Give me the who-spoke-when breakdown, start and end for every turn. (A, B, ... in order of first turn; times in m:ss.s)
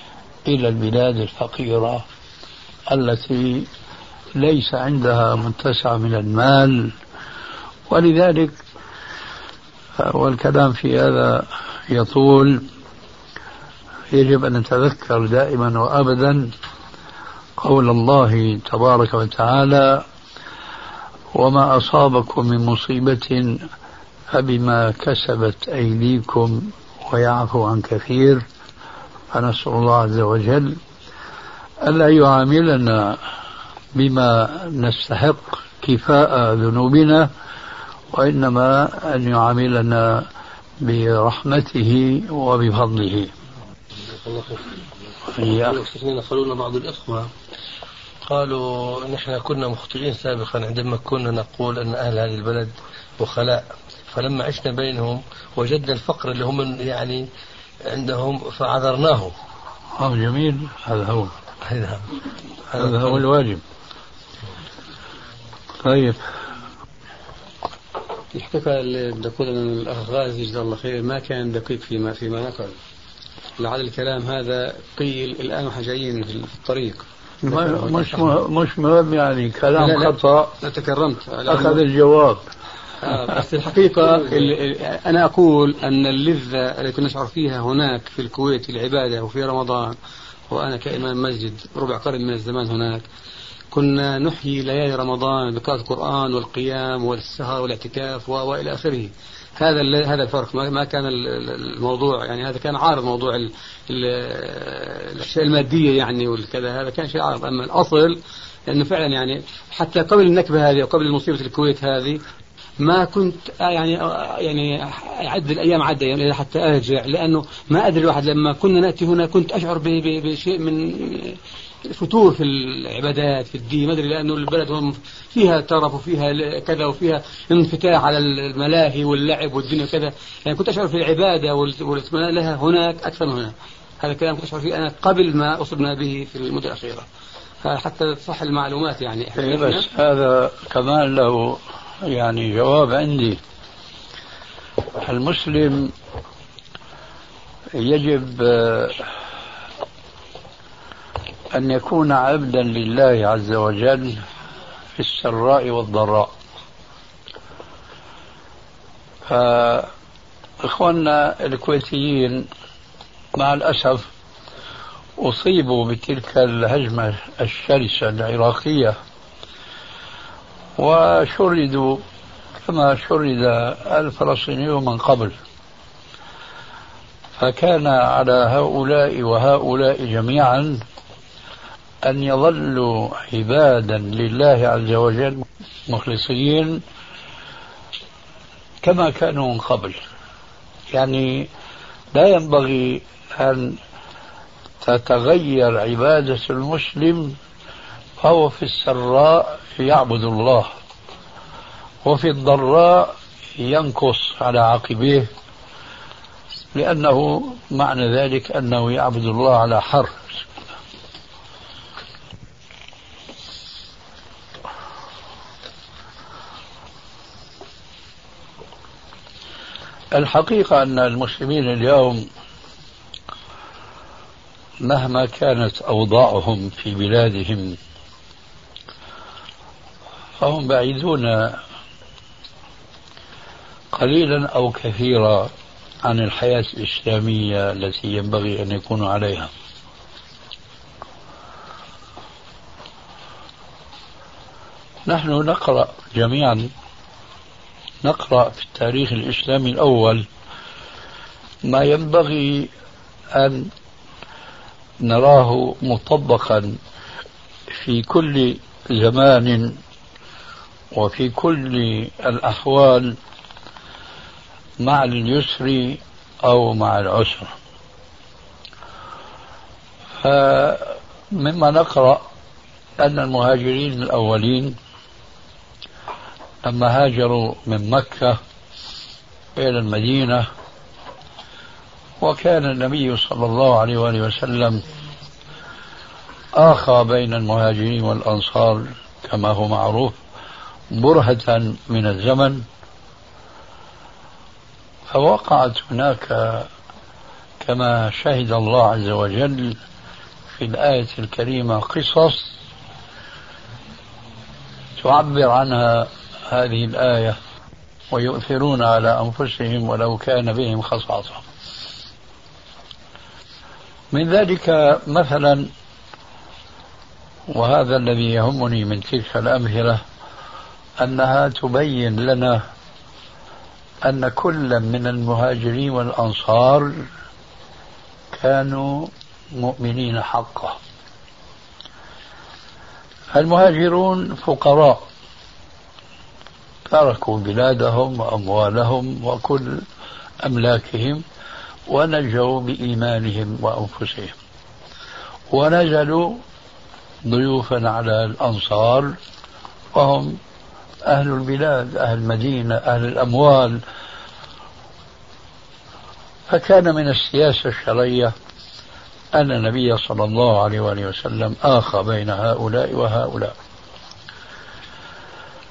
0:00.5-0:02.1 A
0:02.9-0:03.7 A
0:04.4-0:06.9 A
0:07.9-0:08.6 A
0:10.0-0:12.6 A
0:14.1-0:16.5 A
0:17.6-0:20.1 A
0:21.3-0:23.6 A
0:24.3-0:28.4 A
0:29.3-0:30.8 A
0:31.8-0:33.2 A
0:34.0-0:37.3 A
0:38.1-0:40.3 A
0:40.8-0:43.3 A
0:44.1-0:44.7 B
0:45.4-0:45.8 A
0:45.4-0:47.3 B
0:48.3-0:57.2 B
0:57.9-0:59.3 B
1:00.0-1:01.3 A
1:01.6-1:02.2 B
1:02.7-1:03.6 A
1:02.8-1:03.2 B
1:05.8-1:06.2 A
1:08.3-1:12.8 C
1:13.6-1:18.3 C
1:17.4-1:20.6 A
1:19.8-1:21.8 C
1:21.5-1:22.4 A
1:23.0-1:30.0 C
1:30.5-1:33.0 C
1:33.7-1:52.2 C
1:52.8-2:17.1 C
2:17.6-2:19.8 C
2:19.4-2:23.4 A
2:25.0-2:25.9 A
2:27.8-2:29.1 A
2:31.5-2:34.2 A
2:35.0-2:36.3 A
2:39.2-2:39.9 A
2:40.6-2:42.5 A
2:43.4-2:44.1 A
2:45.2-2:49.0 A
2:50.8-2:52.0 A
2:52.6-2:55.4 A
2:57.4-3:00.8 A
3:02.0-3:06.8 A
3:08.8-3:10.0 A
3:10.9-3:11.5 A
3:12.1-3:13.8 A
3:14.8-3:17.4 A
3:18.2-3:20.7 A
3:22.0-3:25.3 A
3:26.7-3:30.5 A
3:40.1-3:42.3 A
3:44.8-3:47.8 A
3:50.4-3:51.6 A
3:53.9-3:55.5 A
3:56.0-3:59.5 A
4:05.1-4:06.7 A
4:08.0-4:10.2 A
4:11.6-4:12.7 A
4:13.3-4:13.7 A
4:15.0-4:16.8 A
4:17.7-4:19.8 A
4:20.9-4:23.2 A
4:24.8-4:27.6 A
4:30.2-4:32.2 A
4:33.0-4:34.8 A
4:36.6-4:38.4 A
4:39.6-4:40.5 A
4:42.2-4:44.8 A
4:46.6-4:50.2 A
4:50.9-4:52.7 A
4:55.1-4:56.7 A
4:57.6-4:59.8 A
5:00.5-5:02.5 A
5:05.0-5:07.4 A
5:08.1-5:11.5 A
5:14.1-5:15.7 A
5:17.5-5:20.0 A
5:21.0-5:22.6 A
5:24.0-5:27.0 A
5:28.3-5:30.8 A
5:33.3-5:35.1 A
5:36.9-5:39.8 A
5:40.4-5:41.2 A
5:41.9-5:44.4 A
5:45.5-5:46.4 A
5:47.2-5:49.2 A
5:49.9-5:50.4 A
5:51.1-5:53.8 A
5:56.5-5:58.3 A
5:59.3-6:03.6 A